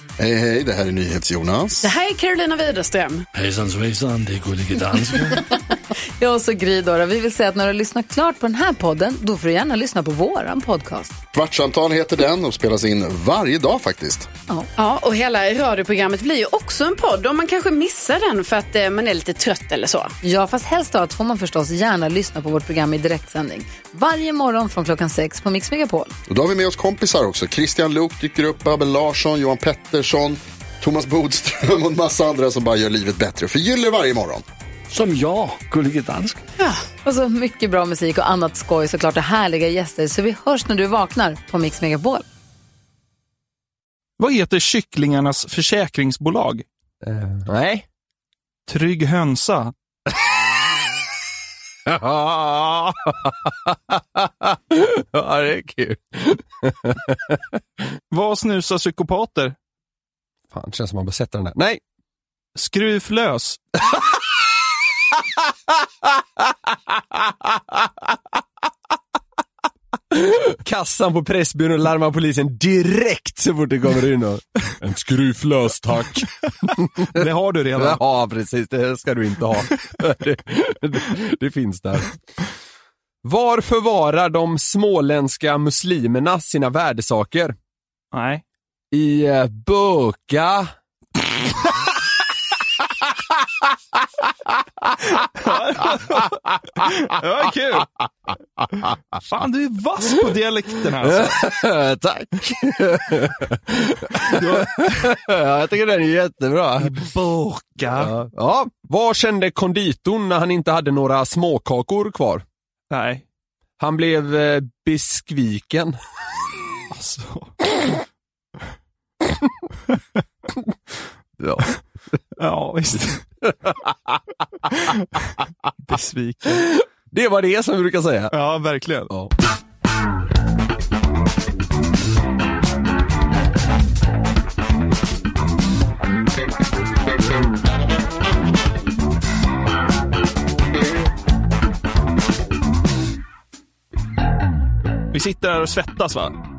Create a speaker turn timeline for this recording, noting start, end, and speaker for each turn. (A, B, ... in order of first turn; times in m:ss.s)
0:00.2-0:01.9 A
0:01.8-0:03.3 B
0:03.3-0:05.4 C
0:05.3-0:05.6 D
0:06.2-0:11.2 D
0:11.3-0:14.3 A
0:14.8-0:20.1 B
0:20.2-0:26.1 D
0:26.3-0:34.4 A
0:34.9-0:36.4 C
0:36.6-0:42.2 D
0:44.2-0:46.6 E
0:47.0-0:47.9 F
0:48.7-0:49.7 E
0:51.9-0:57.6 F
0:58.1-0:59.6 E
1:00.5-1:01.8 F
1:02.6-1:03.6 E
1:06.0-1:08.2 F
1:10.1-1:17.2 F
1:17.1-1:18.0 E
1:17.8-1:22.1 F
1:23.2-1:27.6 F
1:28.1-1:28.4 E
1:28.9-1:30.7 F
1:35.4-1:37.9 E
1:38.6-1:39.0 F
1:39.3-1:41.4 E
1:41.0-1:47.1 F
1:44.2-1:45.1 E
1:46.8-1:48.1 E
1:47.9-1:52.4 F
1:52.9-1:53.2 E
1:53.8-1:56.0 F
1:56.9-1:57.5 E
2:01.4-2:01.7 F
2:02.4-2:03.2 E
2:03.7-2:04.2 F
2:04.7-2:05.2 E
2:05.8-2:06.7 E
2:06.6-2:08.3 F
2:08.3-2:09.1 E
2:25.1-2:26.4 E